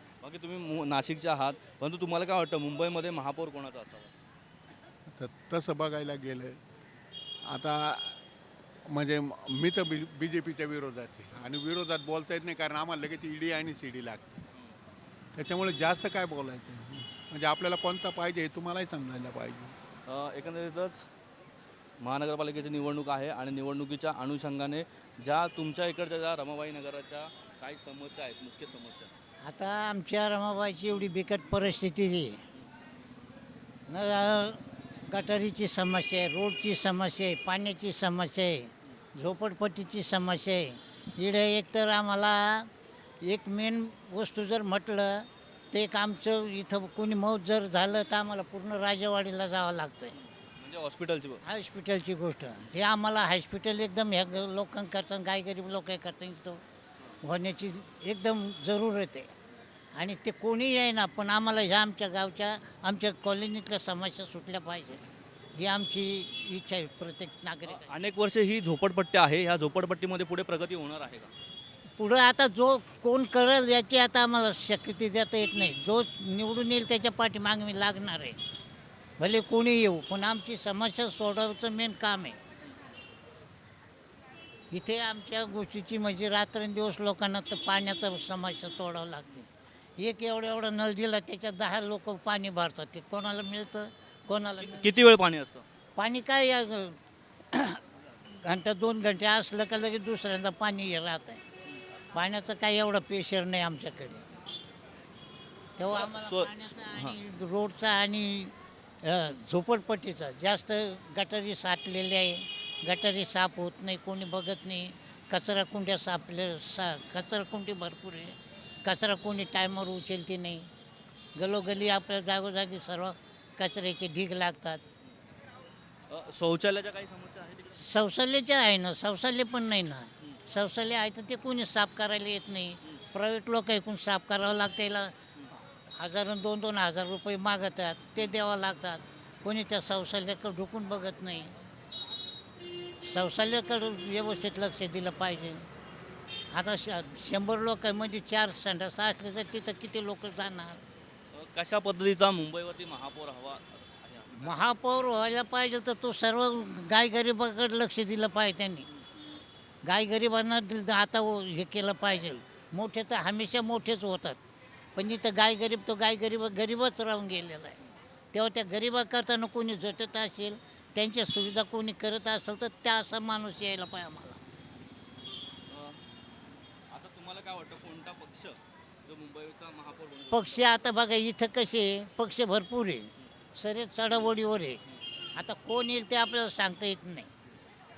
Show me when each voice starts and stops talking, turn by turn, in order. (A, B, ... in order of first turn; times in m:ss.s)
0:00.2-0:04.1 A
0:05.1-0:06.6 B
0:07.4-0:08.1 B
0:08.9-0:14.4 B
0:15.4-0:19.7 B
0:20.1-0:21.0 A
0:22.0-0:29.1 A
0:29.4-0:32.4 C
0:33.9-0:42.7 C
0:43.2-0:50.1 C
0:50.6-0:51.4 A
0:51.4-0:56.6 C
0:57.2-0:59.3 C
1:00.0-1:05.0 C
1:05.6-1:07.9 C
1:07.7-1:11.3 A
1:12.0-1:18.4 C
1:19.2-1:22.4 C
1:24.7-1:35.0 C
1:34.6-1:35.6 A
1:36.0-1:37.0 C
1:37.5-1:37.8 C
1:38.4-1:41.4 C
1:42.1-1:44.2 C
1:45.8-1:48.5 C
1:45.9-1:47.2 A
1:49.0-2:00.6 C
2:01.4-2:04.8 C
2:06.1-2:07.8 A
2:07.8-2:15.1 C
2:16.0-2:21.5 C
2:23.0-2:25.6 C
2:26.5-2:30.8 C
2:31.3-2:34.7 A
2:34.4-2:38.8 C
2:39.8-2:44.4 C
2:44.9-2:47.8 C
2:48.3-2:54.4 C
2:55.7-2:56.0 A
2:56.9-3:00.7 A
3:00.3-3:04.8 C
3:05.4-3:07.3 C